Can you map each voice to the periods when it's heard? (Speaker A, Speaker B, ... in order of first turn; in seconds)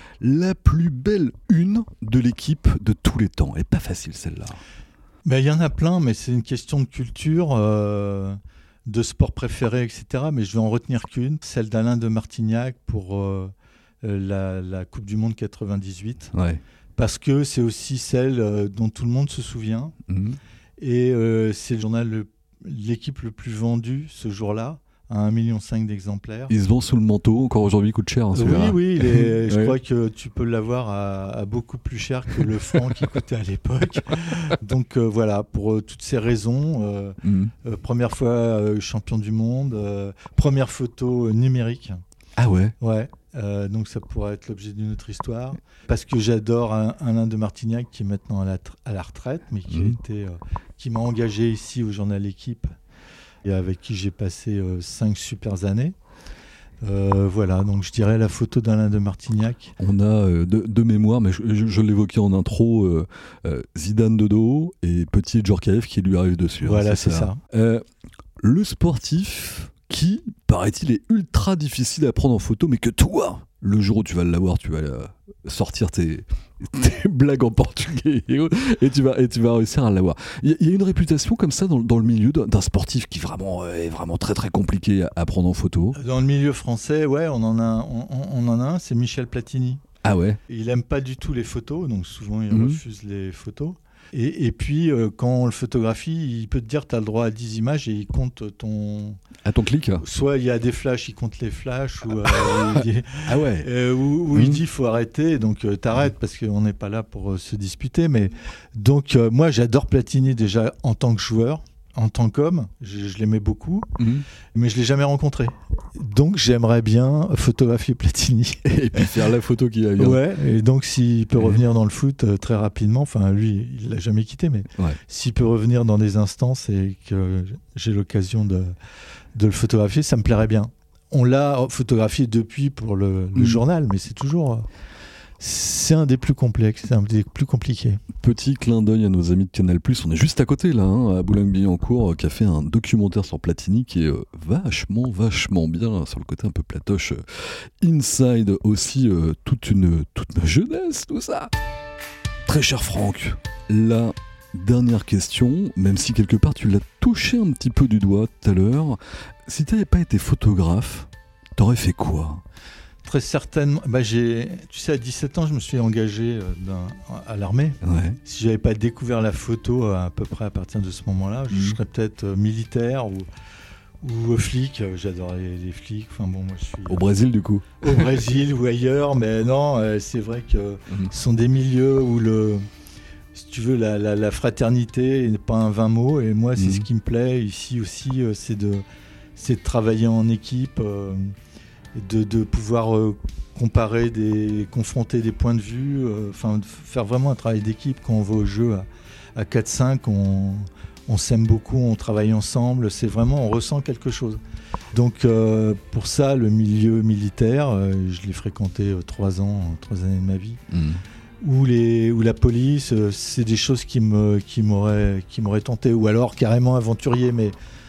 Speaker A: 0.2-4.6, 16.3-16.6, 20.1-20.4, 26.5-29.8, 37.2-37.5, 42.4-42.8, 49.7-50.0, 59.8-67.8, 68.4-86.0, 90.0-90.4, 92.5-92.8, 99.4-100.0, 102.3-103.7, 104.3-104.6, 114.0-114.2, 118.7-120.2, 121.4-121.6, 133.4-133.6, 138.2-151.5, 152.5-162.4, 167.8-168.2, 171.5-171.8, 176.9-178.1, 186.6-186.9, 210.7-211.0
Speaker B: 5.2-13.5, 14.0-16.3, 17.0-20.0, 20.8-26.5, 28.3-42.0, 42.8-52.7, 53.4-56.0, 56.8-59.8, 66.6-67.4, 86.0-89.8, 90.5-99.2, 100.0-114.0, 114.5-119.1, 120.0-128.7, 129.3-134.7, 135.4-138.0, 163.0-173.3, 174.0-177.0, 177.8-182.7, 183.3-188.8, 189.4-191.3, 191.9-204.4, 204.9-210.6, 211.4-217.6